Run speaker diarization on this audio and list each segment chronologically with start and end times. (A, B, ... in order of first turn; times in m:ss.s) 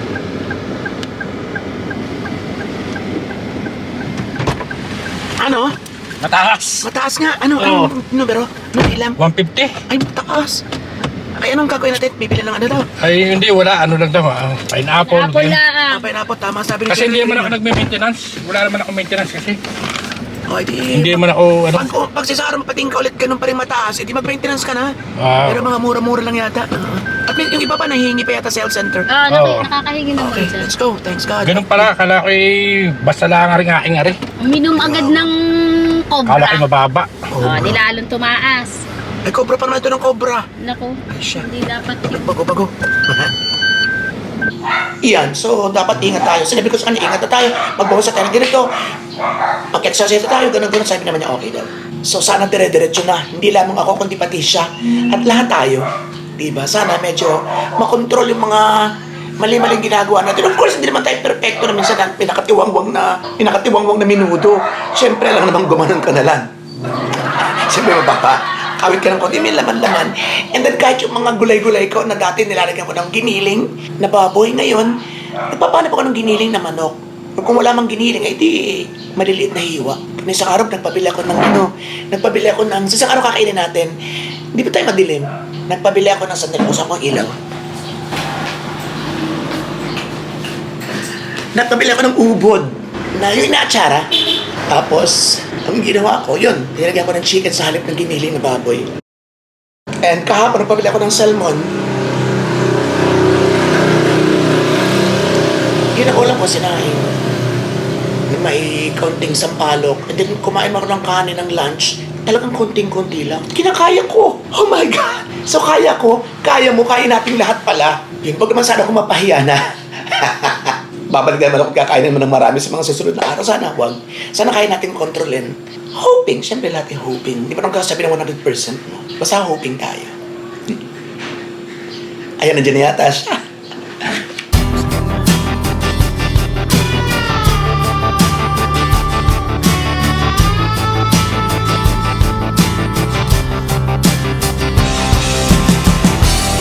0:05.4-0:05.7 A
0:06.2-0:06.9 B
0:06.8-0:09.2 A
0:07.6-0:07.9 B
0:09.2-0:09.8 B
0:09.9-0:10.6 A
0:11.4-0:12.9 A
0:13.0-0:15.6 B
0:15.0-0:16.0 C
0:15.9-0:17.6 A
0:16.9-0:19.6 B
0:20.5-0:29.1 A
0:20.9-0:21.9 B
0:25.2-0:25.6 B
0:29.1-0:30.7 C
0:29.3-0:29.7 B
0:30.2-0:31.9 A
0:31.4-0:34.2 B
0:34.4-0:36.6 C
0:34.7-0:35.3 A
0:36.2-0:37.3 B
0:37.3-0:37.8 A
0:37.4-0:38.8 C
0:39.2-0:40.5 A
0:40.6-0:42.2 C
0:41.1-0:43.3 A
0:45.0-0:48.7 A
0:49.7-0:55.8 A
0:56.4-1:06.5 A
1:07.4-1:24.0 A
1:24.5-1:27.3 A
1:31.5-1:34.1 A
1:34.7-1:38.9 A
1:40.0-1:41.7 A
1:46.0-1:47.2 A
1:48.3-2:10.1 A
2:12.4-2:13.4 A